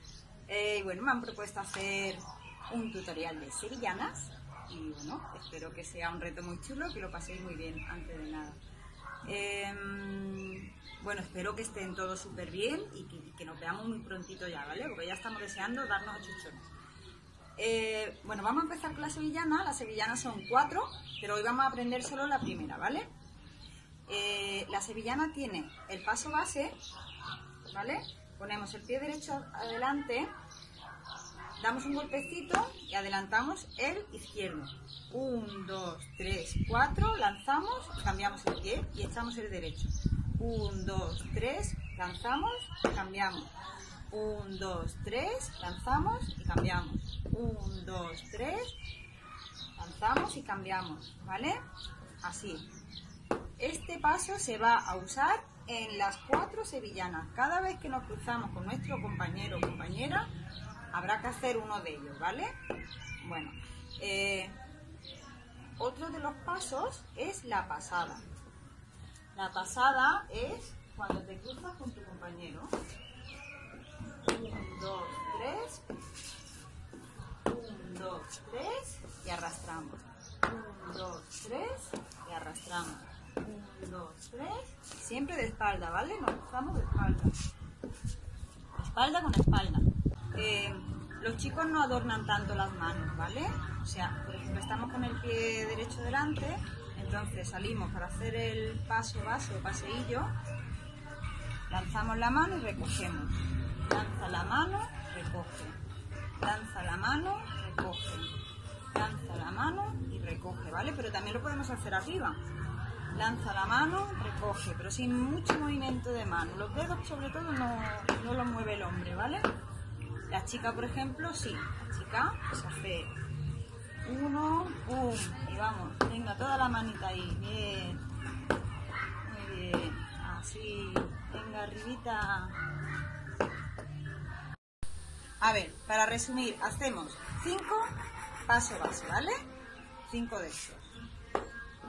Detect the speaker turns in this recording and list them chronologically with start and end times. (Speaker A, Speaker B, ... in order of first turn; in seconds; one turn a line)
Speaker A: 0.5-8.6
Speaker A: 9.2-16.7
Speaker A: 17.6-23.1
Speaker A: 24.1-26.8
Speaker A: 27.7-30.3
Speaker A: 31.6-43.5
Speaker A: 44.1-48.8
Speaker A: 49.8-51.6
Speaker A: 52.2-52.7
Speaker A: 53.6-60.3
Speaker A: 60.9-62.5
Speaker A: 63.2-64.6
Speaker A: 65.8-68.2
Speaker A: 69.3-72.7
Speaker A: 74.2-75.9
Speaker A: 77.5-87.4
Speaker A: 88.8-100.3
Speaker A: 101.7-105.8
Speaker A: 106.4-108.3
Speaker A: 108.9-112.4
Speaker A: 113.1-119.5
Speaker A: 120.3-123.1
Speaker A: 124.0-128.0
Speaker A: 129.2-132.6
Speaker A: 135.4-137.9
Speaker A: 138.5-139.4
Speaker A: 140.1-141.0